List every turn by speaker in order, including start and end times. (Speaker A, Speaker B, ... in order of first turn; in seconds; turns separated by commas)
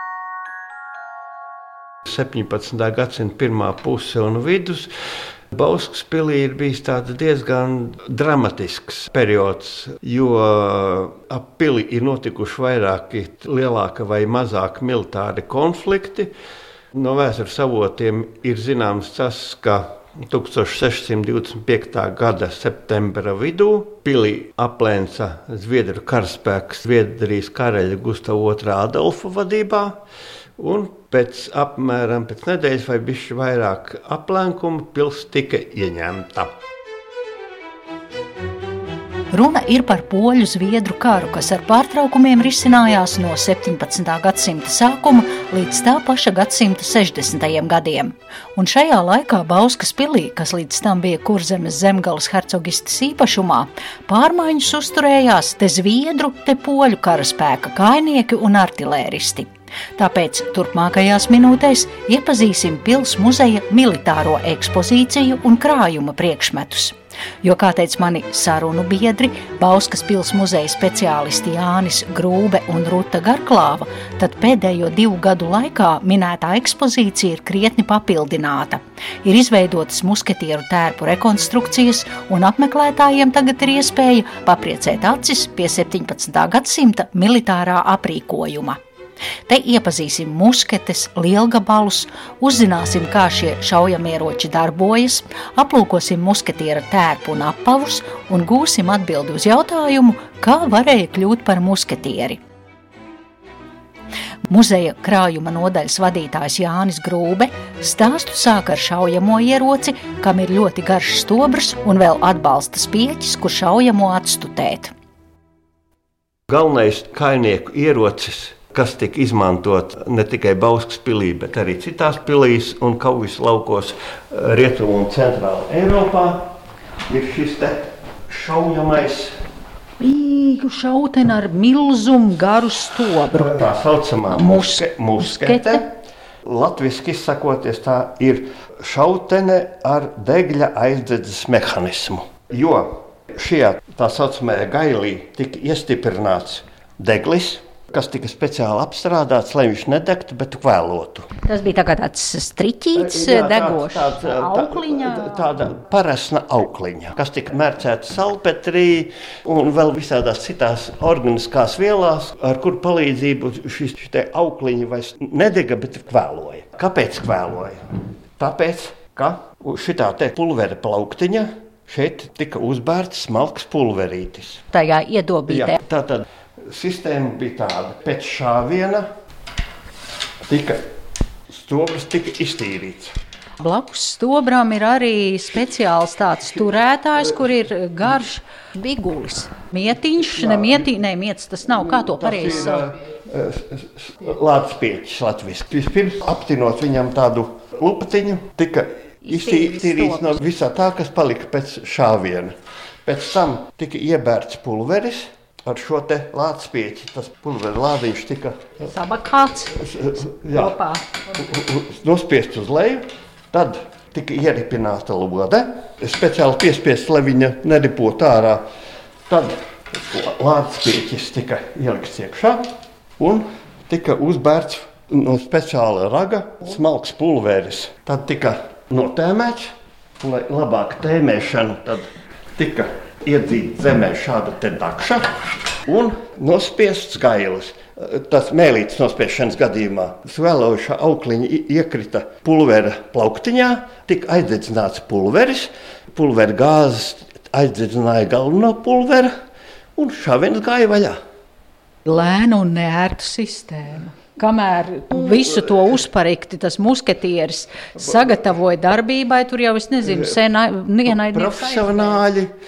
Speaker A: 2.0-4.9, Speaker A: 5.5-16.3, Speaker A: 16.9-30.0, Speaker A: 30.6-36.5, Speaker B: 39.3-88.8, Speaker B: 89.5-102.4, Speaker B: 104.5-114.9, Speaker A: 116.5-126.5, Speaker A: 127.0-129.3, Speaker B: 130.0-133.6, Speaker A: 133.3-135.9, Speaker B: 134.3-135.8, Speaker A: 136.4-151.3, Speaker B: 151.4-155.4, Speaker A: 152.9-167.8, Speaker A: 168.4-174.6, Speaker B: 174.7-175.8, Speaker A: 175.5-179.1, Speaker A: 180.5-180.8, Speaker A: 181.5-183.1, Speaker B: 183.6-192.9, Speaker A: 190.3-190.8, Speaker A: 191.7-208.8, Speaker B: 199.2-200.4, Speaker B: 208.9-211.1, Speaker A: 209.8-210.8, Speaker A: 211.3-218.6, Speaker A: 219.3-249.3, Speaker A: 249.9-251.2, Speaker B: 252.0-262.2, Speaker A: 261.1-262.5